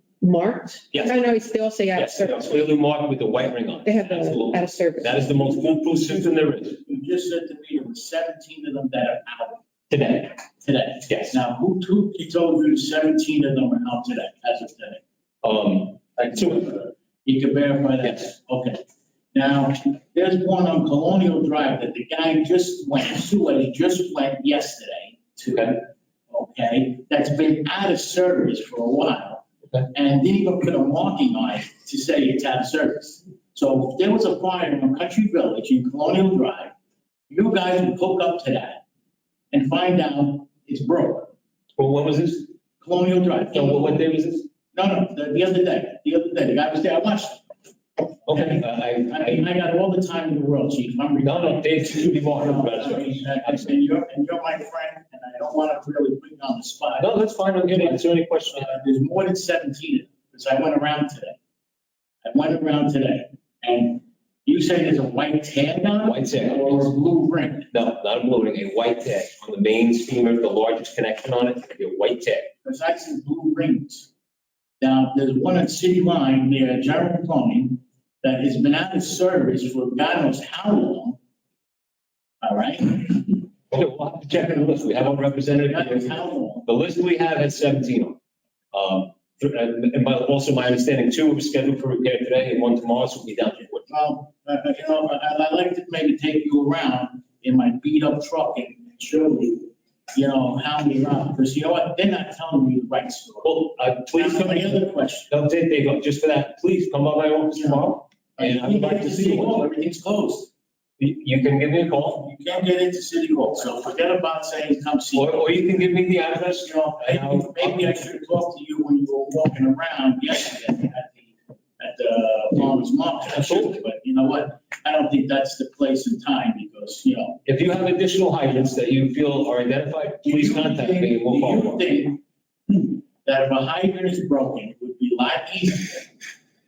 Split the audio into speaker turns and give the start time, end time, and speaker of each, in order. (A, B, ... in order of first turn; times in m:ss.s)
0:00.2-0:02.6 A
0:00.9-0:01.2 B
0:01.9-0:06.8 B
0:03.8-0:05.3 A
0:05.3-0:09.6 C
0:09.9-0:10.4 B
0:10.6-0:15.0 C
0:11.1-0:11.4 B
0:15.4-0:16.8 B
0:16.2-0:18.8 C
0:19.3-0:36.7 C
0:25.5-0:25.8 B
0:37.3-0:38.8 C
0:39.5-0:41.3 C
0:41.8-0:42.5 B
0:42.8-0:44.1 C
0:43.5-0:44.5 B
0:44.7-0:47.4 C
0:48.2-0:57.2 C
0:48.3-0:49.4 B
0:51.2-0:53.7 B
0:57.0-0:58.7 B
0:57.7-1:01.4 C
1:02.2-1:07.7 C
1:06.0-1:06.9 B
1:07.7-1:12.5 B
1:12.6-1:14.1 C
1:14.8-1:21.2 C
1:22.4-1:23.5 C
1:23.7-1:28.2 B
1:24.3-1:26.7 C
1:28.7-1:33.9 B
1:33.9-1:43.6 C
1:43.4-1:49.7 B
1:44.1-1:45.3 C
1:47.5-1:50.5 C
1:51.0-1:52.3 B
1:52.2-1:55.5 C
1:55.2-1:58.0 B
1:56.6-2:07.4 C
2:03.3-2:03.8 B
2:07.5-2:11.8 B
2:10.2-2:16.1 C